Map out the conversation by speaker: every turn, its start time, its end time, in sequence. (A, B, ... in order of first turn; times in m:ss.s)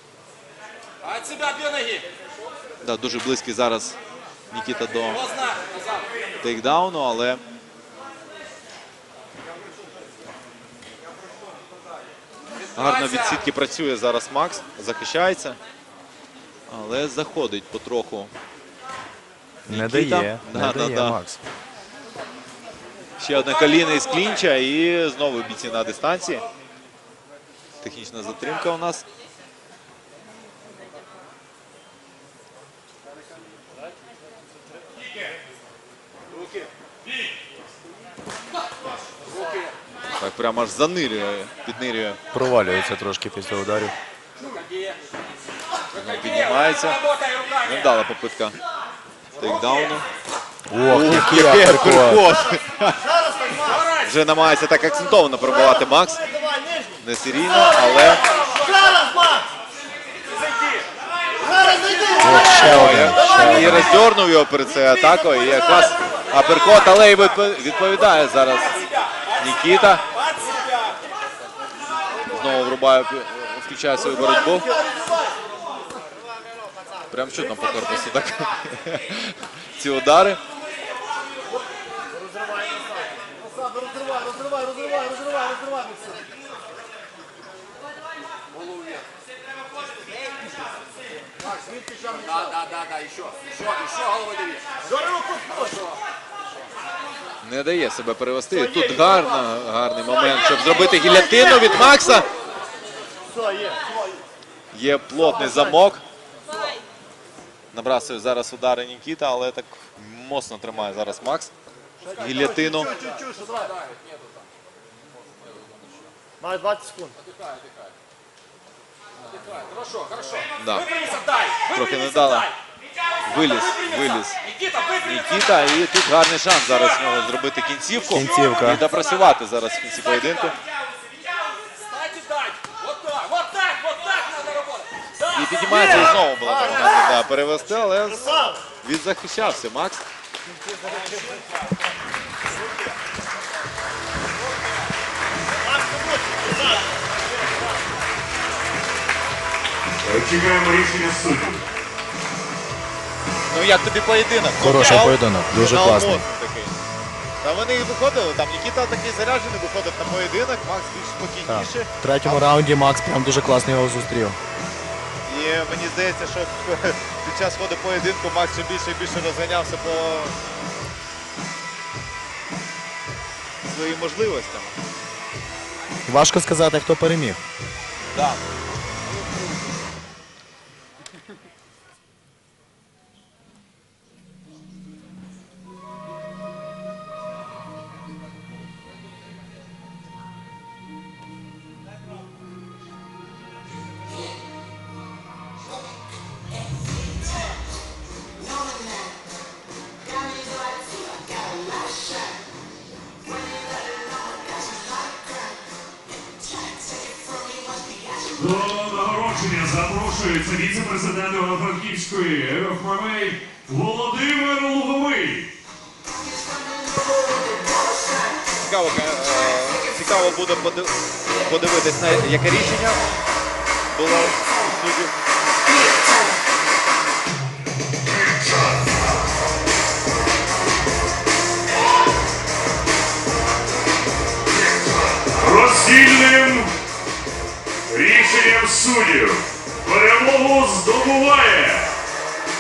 0:01.0-0:02.1 A
0:02.8-0:04.0 B
0:04.5-0:05.3 B
0:05.2-0:06.1 A
0:06.4-0:07.4 B
0:12.8-0:15.6 B
0:12.8-0:13.2 A
0:16.7-0:18.3 B
0:19.7-0:21.2 B
0:19.7-0:21.4 C
0:23.2-0:26.4 B
0:27.8-0:29.0 B
0:36.3-0:36.7 A
0:39.3-0:39.7 A
0:40.2-0:42.2 B
0:42.3-0:44.0 C
0:44.4-0:45.0 A
0:45.9-0:47.0 B
0:46.0-0:47.7 A
0:47.6-0:48.6 B
0:49.3-0:50.1 B
0:50.7-0:52.2 C
0:50.8-0:53.1 B
0:54.0-0:56.2 B
0:57.0-0:58.2 B
0:58.7-0:59.3 A
1:00.6-1:00.8 A
1:01.7-1:02.2 A
1:02.2-1:04.0 C
1:02.6-1:08.8 B
1:09.4-1:10.0 B
1:12.3-1:14.8 B
1:17.1-1:20.4 B
1:28.6-1:29.1 A
1:31.7-1:36.0 A
1:37.4-1:42.3 B
1:44.7-1:46.0 B
1:47.7-1:51.5 B
1:52.0-1:54.5 A
1:52.2-1:52.9 B
1:56.9-1:57.9 A
1:59.3-2:02.5 A
2:00.6-2:00.9 B
2:01.7-2:02.5 B
2:03.3-2:04.4 B
2:04.4-2:05.2 A
2:05.0-2:10.6 B
2:08.1-2:08.8 C
2:11.8-2:15.9 A
2:15.3-2:20.0 B
2:30.0-2:31.6 D
2:33.5-2:36.8 B
2:34.6-2:36.2 C
2:37.4-2:42.5 B
2:41.5-2:44.4 C
2:45.3-2:50.4 B
2:53.6-2:54.7 B
2:56.1-2:57.4 C
2:58.1-2:58.4 B
3:28.3-3:35.5 D
3:38.6-3:43.0 B
3:43.9-3:45.2 B
3:55.1-3:56.7 D
3:57.9-4:01.9 D